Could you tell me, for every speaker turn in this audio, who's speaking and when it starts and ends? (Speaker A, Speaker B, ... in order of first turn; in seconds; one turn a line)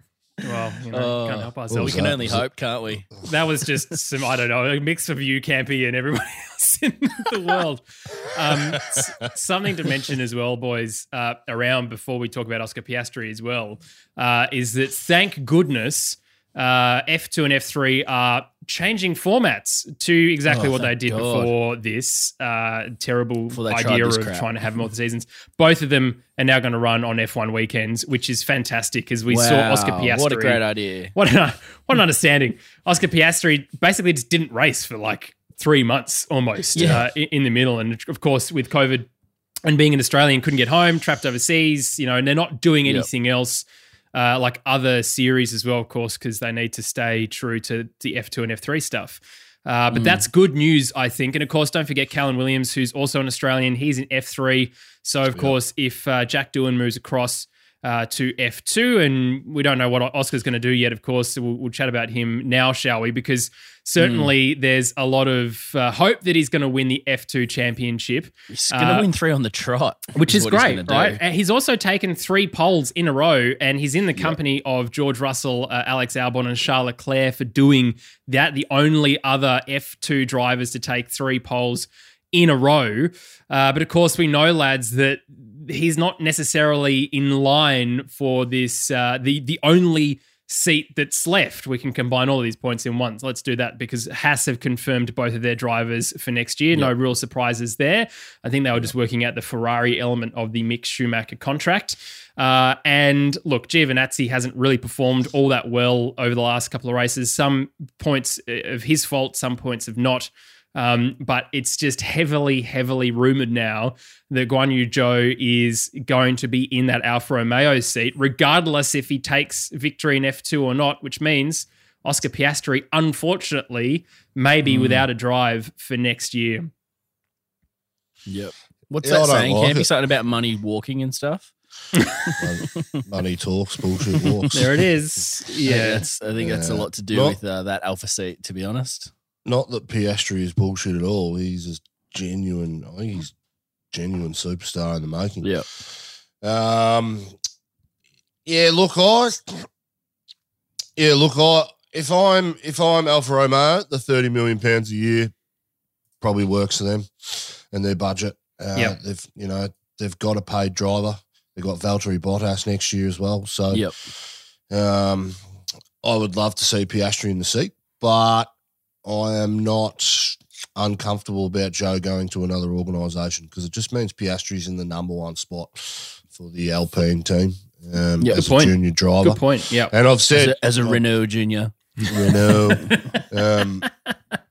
Speaker A: 0.4-2.1
Speaker B: 0.9-3.1
Speaker C: 1.7-2.5
Speaker A: 3.2-30.6
Speaker B: 20.5-21.5
Speaker B: 23.5-24.5
Speaker B: 29.3-31.1
Speaker A: 31.1-39.1
Speaker B: 36.7-37.0
Speaker A: 39.7-69.1
Speaker B: 49.9-50.2
Speaker B: 64.0-64.3
Speaker B: 68.5-71.2
Speaker A: 70.1-126.7
Speaker B: 124.7-125.1
Speaker B: 128.3-131.5
Speaker C: 129.0-129.9
Speaker B: 132.2-133.0
Speaker C: 132.4-134.6
Speaker B: 134.2-134.5
Speaker A: 134.5-136.1
Speaker B: 135.6-139.1
Speaker C: 136.4-137.4
Speaker C: 139.4-143.3
Speaker C: 143.9-145.6
Speaker C: 146.4-147.3
Speaker C: 148.4-149.7
Speaker C: 151.0-155.3
Speaker C: 156.2-163.9
Speaker C: 164.7-165.4
Speaker C: 166.0-168.5
Speaker C: 169.1-181.0
Speaker B: 178.2-178.4
Speaker A: 178.3-179.9
Speaker B: 180.3-183.1
Speaker C: 182.1-183.9